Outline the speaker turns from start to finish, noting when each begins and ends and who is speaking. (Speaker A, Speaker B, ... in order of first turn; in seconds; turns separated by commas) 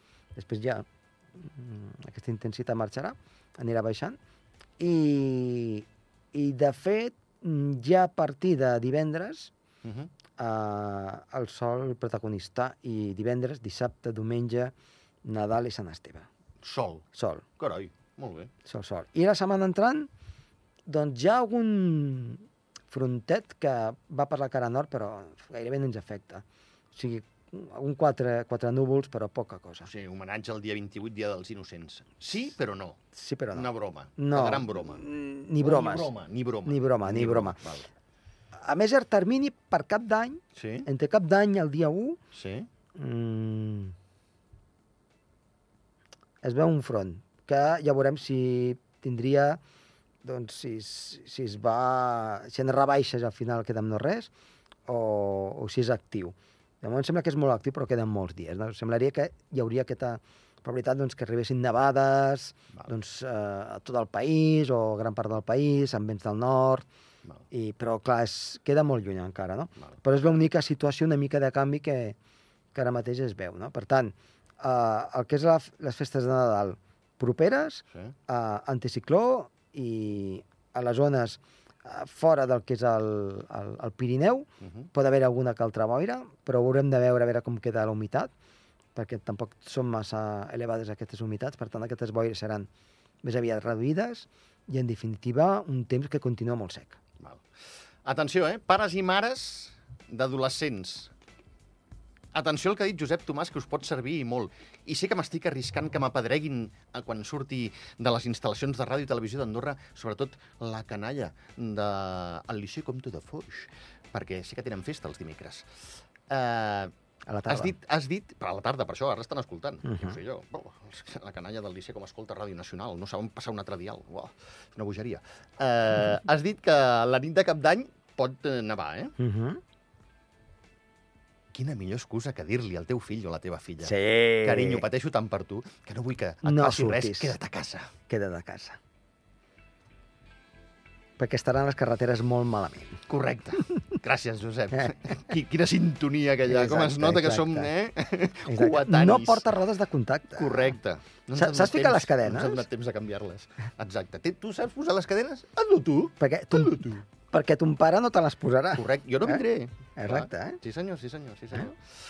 Speaker A: 0.3-0.8, Speaker A: 1.4-4.2, Speaker A: 4.8-9.5, Speaker B: 9.8-10.1, Speaker A: 10.4-14.7, Speaker A: 15.2-16.3, Speaker B: 16.6-17.1, Speaker A: 17.1-17.4, Speaker B: 17.6-18.5, Speaker A: 18.6-20.1, Speaker A: 20.9-26.4, Speaker A: 26.9-29.9, Speaker B: 29.9-33.0, Speaker A: 33.1-36.1, Speaker B: 33.5-35.0, Speaker B: 35.6-37.9, Speaker A: 36.6-37.6, Speaker A: 38.6-42.2, Speaker B: 40.5-40.9, Speaker B: 42.3-42.7, Speaker A: 42.9-43.9, Speaker A: 46.4-49.6, Speaker A: 50.2-54.3, Speaker A: 54.9-66.8, Speaker A: 67.5-72.2, Speaker A: 72.7-88.3, Speaker B: 84.6-84.9, Speaker A: 88.9-92.7, Speaker A: 93.2-97.0, Speaker B: 98.0-101.1, Speaker B: 102.3-115.7, Speaker B: 116.3-116.9, Speaker A: 117.3-117.7, Speaker B: 117.5-129.1, Speaker A: 119.8-120.2, Speaker A: 129.2-129.6, Speaker B: 131.5-137.9, Speaker A: 133.8-134.8, Speaker A: 136.4-137.4, Speaker A: 138.1-138.8, Speaker A: 141.2-143.0, Speaker B: 143.1-149.4, Speaker A: 144.7-145.0, Speaker A: 146.4-147.7, Speaker A: 148.5-150.8, Speaker B: 150.3-157.0, Speaker A: 151.3-152.6, Speaker A: 156.2-159.4, Speaker B: 158.8-161.8, Speaker A: 160.0-160.6